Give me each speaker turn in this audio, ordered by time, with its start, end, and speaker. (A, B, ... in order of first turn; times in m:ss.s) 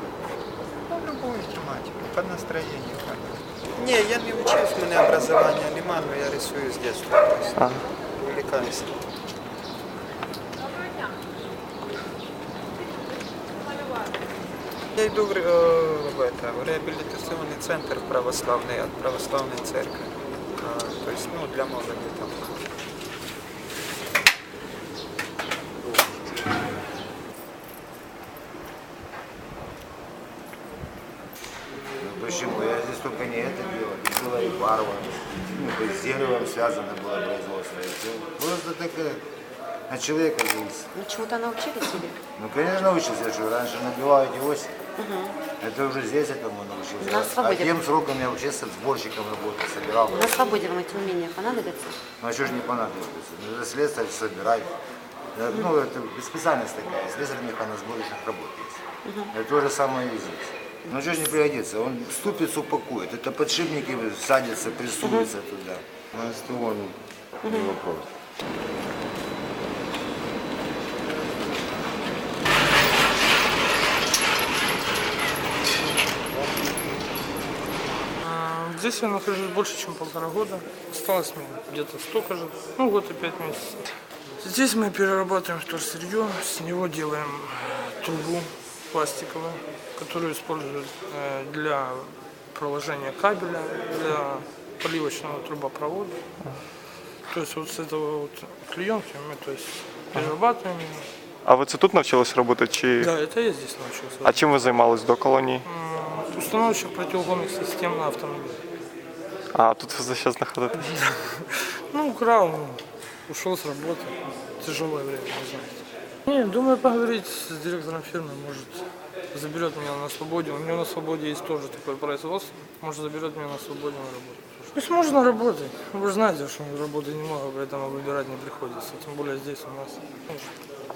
0:00.8-0:09.0 A
0:07.6-0:07.8 B
0:14.9-0:22.6 A
0:32.0-0:39.3 C
0:39.9-0:40.9 C
0:40.9-0:42.2 D
0:42.4-0:44.8 C
0:45.0-0:45.4 D
0:45.5-0:50.3 C
0:47.0-0:47.8 D
0:50.1-0:52.0 D
0:52.2-0:54.7 C
0:55.4-1:07.0 C
0:59.0-0:59.3 D
1:05.0-1:05.3 D
1:07.4-1:07.8 D
1:07.5-1:08.0 C
1:18.2-1:36.2 E
1:37.3-1:41.1 E
1:41.4-1:43.1 B
1:43.0-1:44.4 E
1:44.2-1:45.6 B
1:45.6-1:48.6 E
1:49.5-1:50.8 B
1:50.9-2:10.6 E